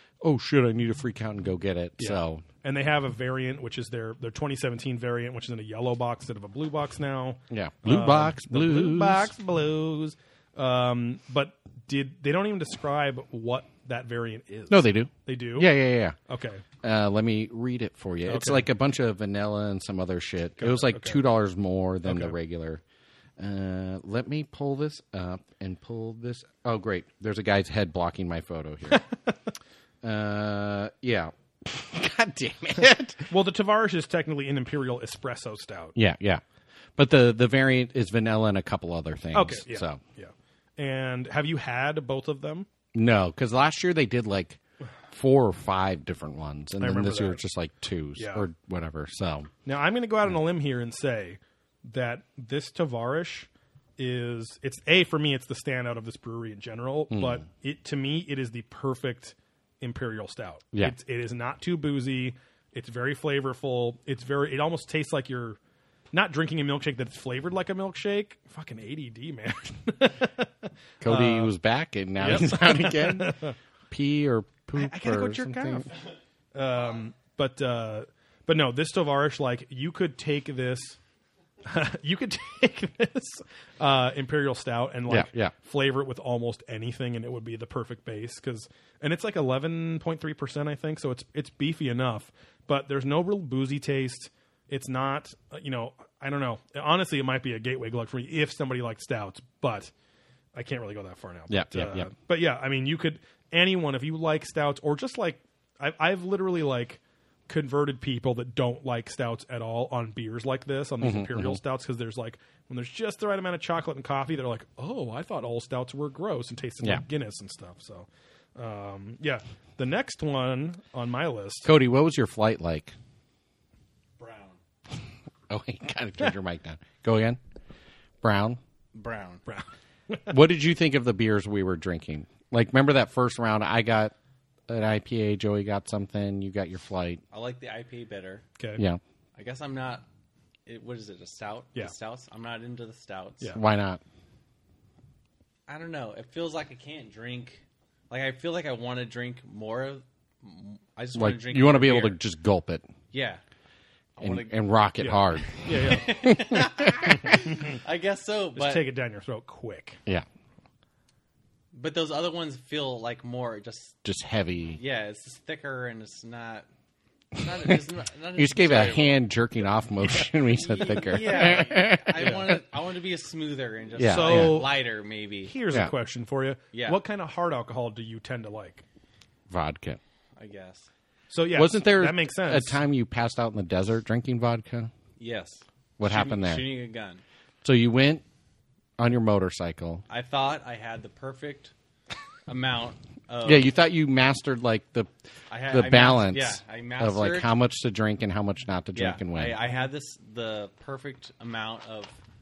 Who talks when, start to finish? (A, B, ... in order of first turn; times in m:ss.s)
0:00.2-0:02.4 A
0:02.0-0:15.7 B
0:07.5-0:09.3 A
0:14.7-0:16.2 A
0:16.3-0:16.6 B
0:16.8-0:22.8 A
0:18.2-0:18.6 B
0:20.6-0:21.2 B
0:22.0-0:22.3 B
0:23.4-0:29.0 A
0:30.0-0:33.3 A
0:33.3-0:35.9 B
0:35.9-0:36.4 A
0:37.0-0:40.0 A
0:39.3-0:42.7 B
0:42.9-0:44.6 A
0:45.1-0:49.5 A
0:46.8-0:47.4 B
0:48.2-0:48.4 B
0:49.6-1:05.6 B
0:57.1-0:57.4 A
1:06.1-1:11.5 B
1:11.0-1:15.9 A
1:12.2-1:13.5 B
1:14.8-1:16.0 B
1:16.5-1:21.0 B
1:21.6-1:39.9 B
1:25.1-1:25.5 A
1:40.5-2:01.7 B
1:41.5-1:42.1 A
1:51.0-1:51.6 A
2:01.6-2:02.9 A
2:04.2-2:04.6 C
2:05.5-2:07.4 A
2:08.2-2:08.6 A
2:08.9-2:09.4 C
2:09.5-2:10.3 B
2:10.3-2:14.1 A
2:14.7-2:17.2 A
2:17.3-2:18.4 C
2:18.6-2:18.8 B
2:18.8-2:19.0 A
2:19.4-2:20.0 C
2:20.6-2:23.5 C
2:23.5-2:24.0 A
2:25.7-2:32.2 C
2:31.1-2:32.9 A
2:33.1-2:33.4 C
2:34.2-2:34.8 C
2:34.2-2:36.7 A
2:35.0-2:36.3 B
2:35.4-2:38.9 C
2:37.2-2:37.8 B
2:38.5-2:40.0 B
2:41.7-2:43.9 C
2:44.0-2:44.8 A
2:44.8-2:46.6 C
2:47.3-2:49.3 C
2:48.3-2:52.6 A
2:50.0-2:55.5 C
2:54.0-2:54.7 A
2:54.0-2:54.8 B
2:55.4-2:58.8 B
2:56.7-2:57.0 C
2:59.5-3:00.0 A
3:00.4-3:00.9 C
3:01.3-3:02.8 B
3:01.5-3:04.9 A
3:05.2-3:07.2 C
3:06.0-3:06.7 A
3:07.6-3:08.2 A
3:09.0-3:10.0 A
3:10.1-3:11.7 C
3:12.5-3:13.7 C
3:13.4-3:15.1 A
3:15.5-3:17.5 C
3:15.6-3:19.6 A
3:18.9-3:22.2 C